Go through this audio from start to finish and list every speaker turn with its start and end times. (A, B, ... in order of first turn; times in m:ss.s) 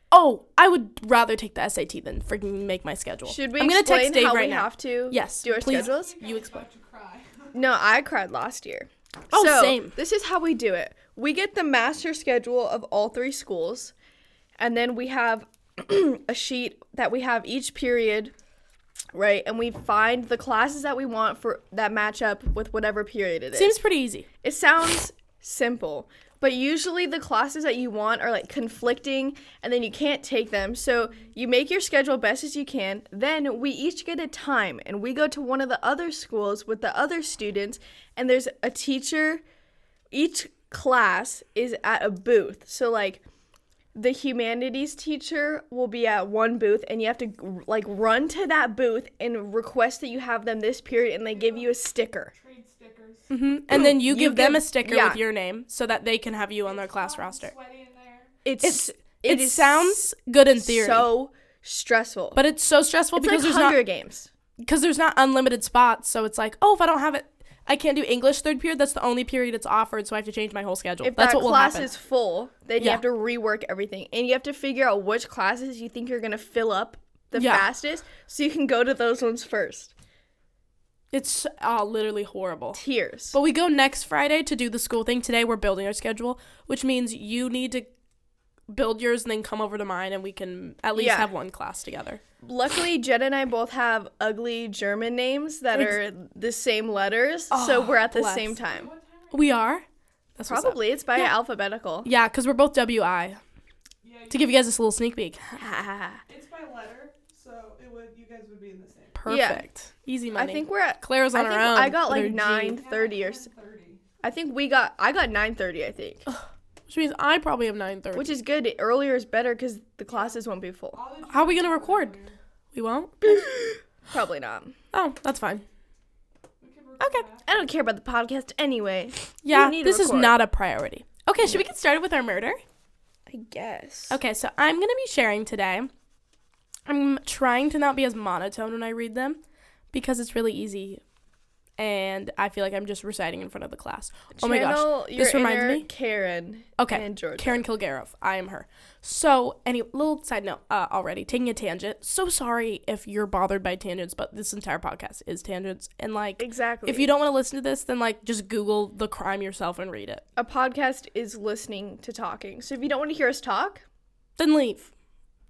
0:00.1-0:06.7 A
0:03.3-0:06.2 B
0:05.5-0:07.6 C
0:07.5-0:13.9 B
0:09.3-0:10.0 A
0:14.6-0:18.3 B
0:19.1-0:23.8 B
0:23.5-0:24.3 A
0:24.4-0:39.4 B
0:40.1-0:43.2 B
0:43.9-0:52.3 B
0:51.3-0:51.8 C
0:52.3-0:53.3 C
0:53.3-0:57.5 A
0:53.7-0:55.2 B
0:56.6-0:58.3 C
0:58.4-1:00.0 B
0:58.6-1:01.1 A
1:00.6-1:02.4 B
1:02.4-1:03.8 A
1:03.2-1:04.3 B
1:04.6-1:11.9 A
1:11.0-1:19.9 B
1:17.4-1:17.7 A
1:21.1-1:22.8 A
1:22.7-1:23.4 B
1:23.3-1:27.9 A
1:28.7-1:32.2 A
1:31.0-1:31.3 B
1:32.4-1:38.9 B
1:37.5-1:38.6 A
1:38.6-1:39.6 C
1:39.3-1:39.8 A
1:40.4-1:41.3 A
1:40.5-1:42.1 B
1:42.0-1:43.4 A
1:44.0-1:44.7 C
1:44.3-1:45.6 A
1:45.6-1:46.2 B
1:46.3-1:49.2 C
1:49.2-1:52.8 A
1:49.3-1:49.6 B
1:50.4-1:53.5 B
1:52.7-1:54.0 C
1:54.2-1:56.2 B
1:56.3-1:58.3 A
1:58.1-2:01.0 B
2:00.1-2:02.4 C
2:01.3-2:02.2 A
2:02.7-2:03.8 A
2:04.1-2:04.8 B
2:04.9-2:05.6 A
2:06.6-2:07.7 C
2:07.0-2:07.3 A
2:07.5-2:10.4 B
2:09.4-2:12.6 A
2:13.3-2:14.2 B
2:14.1-2:15.9 A
2:16.9-2:19.4 A
2:19.9-2:21.0 A
2:21.8-2:25.9 A
2:24.4-2:27.6 B
2:26.8-2:40.2 A
2:36.4-2:37.1 B
2:40.4-2:43.8 B
2:44.4-2:44.9 A